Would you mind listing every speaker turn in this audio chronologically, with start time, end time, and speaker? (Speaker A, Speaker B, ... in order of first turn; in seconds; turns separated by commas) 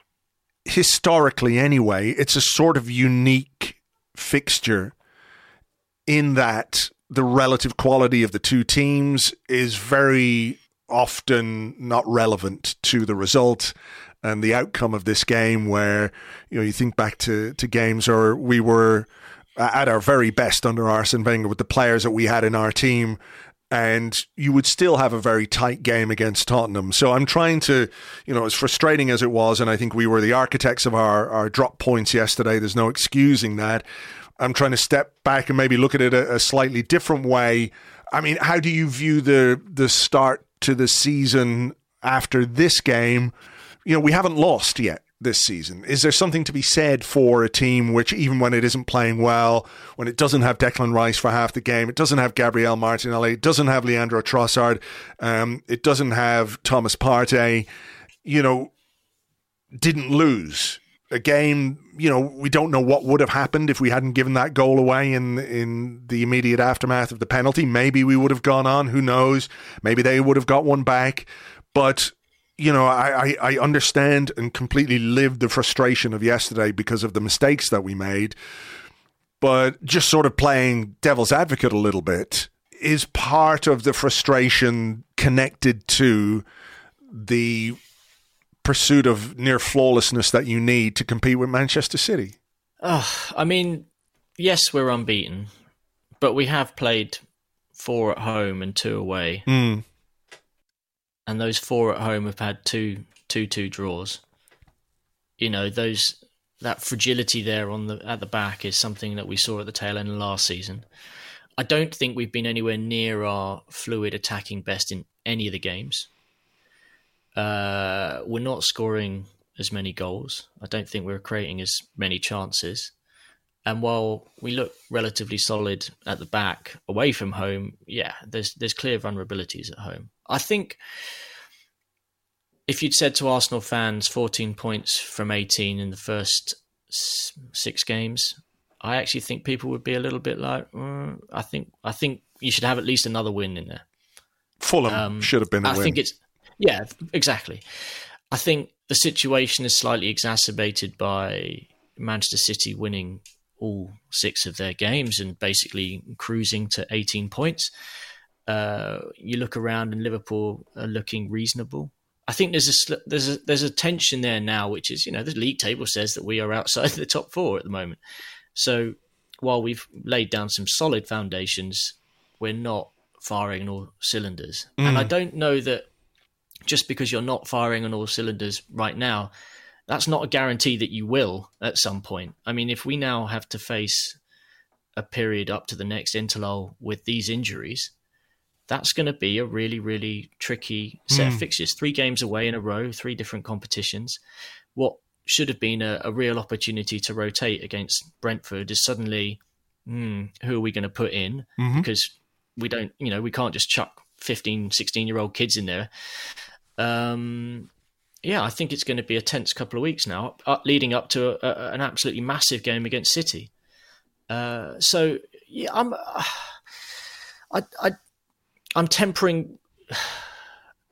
Speaker A: 0.6-4.9, Speaker A: 6.1-33.8, Speaker A: 34.4-43.3, Speaker A: 43.8-57.7, Speaker A: 58.2-58.7, Speaker A: 59.8-78.3, Speaker A: 79.4-86.4, Speaker A: 87.1-87.8, Speaker A: 88.6-92.3, Speaker B: 92.8-93.9, Speaker B: 94.4-95.5, Speaker B: 96.2-97.2, Speaker B: 97.7-99.5, Speaker A: 99.5-99.8, Speaker B: 101.3-104.2, Speaker B: 105.4-110.8, Speaker B: 111.6-116.1, Speaker B: 117.3-122.9, Speaker B: 123.7-130.8, Speaker B: 132.7-143.8, Speaker A: 144.6-146.0, Speaker B: 144.9-157.7, Speaker B: 158.5-168.0, Speaker B: 168.5-175.9, Speaker A: 174.8-175.1, Speaker B: 176.7-179.3, Speaker B: 179.9-184.2, Speaker B: 184.9-187.9, Speaker B: 188.7-194.2, Speaker A: 191.1-191.4, Speaker B: 194.7-207.7, Speaker A: 201.6-201.9, Speaker B: 208.2-213.5, Speaker B: 214.3-216.6, Speaker B: 217.5-218.0, Speaker B: 218.7-220.3